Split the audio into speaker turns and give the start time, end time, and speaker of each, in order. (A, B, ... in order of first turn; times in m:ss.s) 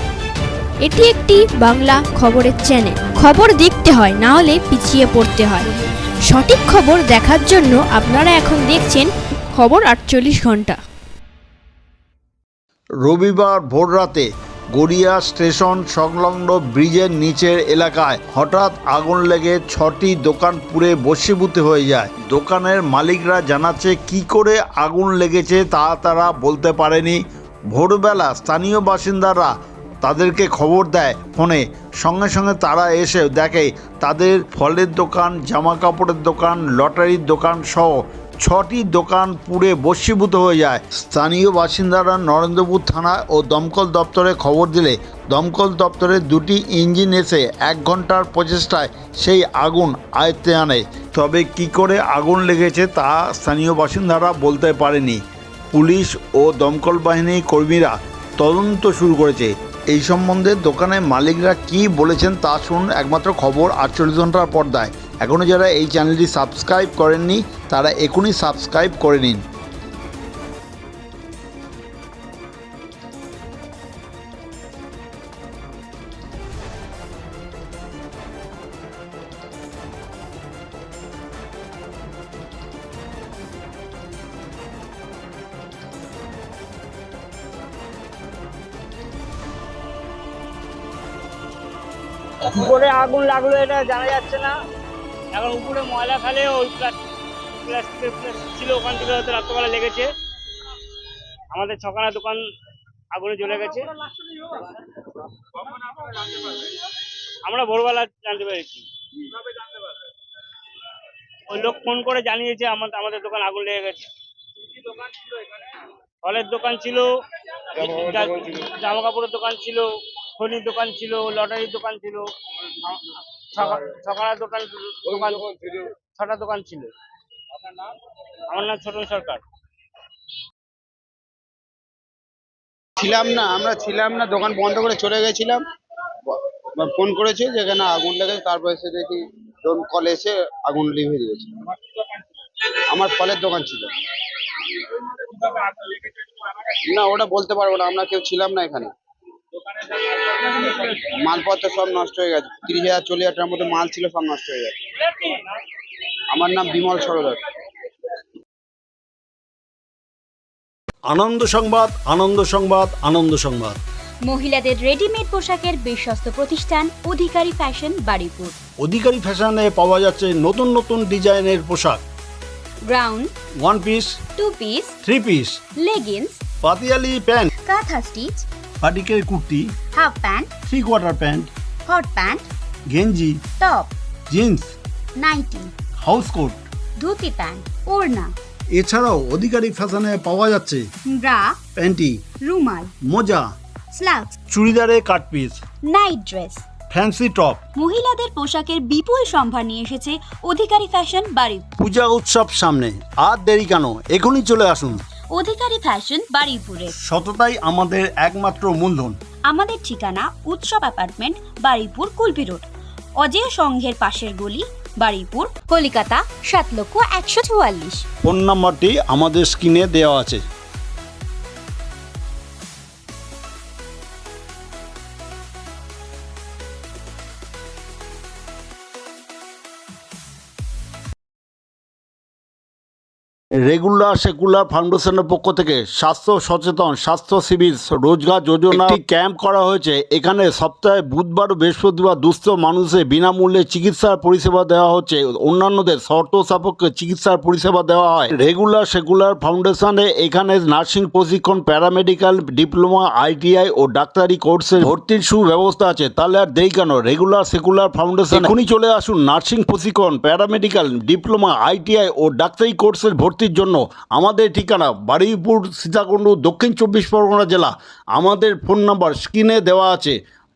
0:00.8-0:05.7 A
0:06.2-0:10.8 A
0:13.0-0:27.2 B
0:27.7-1:09.4 B
1:32.4-1:34.5 C
1:35.4-1:36.9 C
1:37.6-1:40.1 C
1:41.5-1:42.4 C
1:43.1-1:43.8 C
1:44.4-1:44.8 C
1:45.6-1:46.8 C
1:47.5-1:48.8 C
1:49.5-1:49.9 C
1:51.5-1:54.1 C
1:54.9-1:55.4 C
1:56.2-1:57.1 C
1:57.8-1:59.9 C
2:00.4-2:02.3 C
2:02.8-2:06.9 C
2:08.5-2:09.4 C
2:13.0-2:15.6 D
2:16.3-2:21.7 D
2:22.9-2:23.9 D
2:26.9-2:28.9 D
2:30.3-2:34.8 D
2:36.3-2:37.4 D
2:41.1-2:43.8 B
2:44.2-2:48.6 E
2:48.8-2:52.0 B
2:52.8-2:53.3 E
2:53.6-2:54.2 B
2:54.4-2:55.0 E
2:55.0-2:55.6 B
2:55.8-2:56.4 E
2:56.6-2:57.5 B
2:57.6-2:58.5 E
2:58.8-2:59.7 B
3:00.0-3:00.5 E
3:00.7-3:01.5 B
3:01.8-3:02.5 E
3:02.9-3:03.4 B
3:03.6-3:04.0 E
3:04.3-3:04.7 B
3:05.2-3:05.7 E
3:06.0-3:06.6 B
3:07.0-3:08.3 E
3:08.8-3:10.9 B
3:11.1-3:11.6 E
3:11.8-3:12.2 B
3:12.4-3:12.9 E
3:13.0-3:13.5 B
3:13.9-3:14.4 E
3:14.5-3:15.6 B
3:15.8-3:16.7 E
3:16.9-3:17.6 B
3:17.8-3:21.7 E
3:21.8-3:25.0 B
3:25.3-3:27.0 E
3:27.0-3:29.2 B
3:29.5-3:32.7 E
3:33.2-3:38.0 E
3:38.2-3:40.4 B
3:53.7-4:30.2 B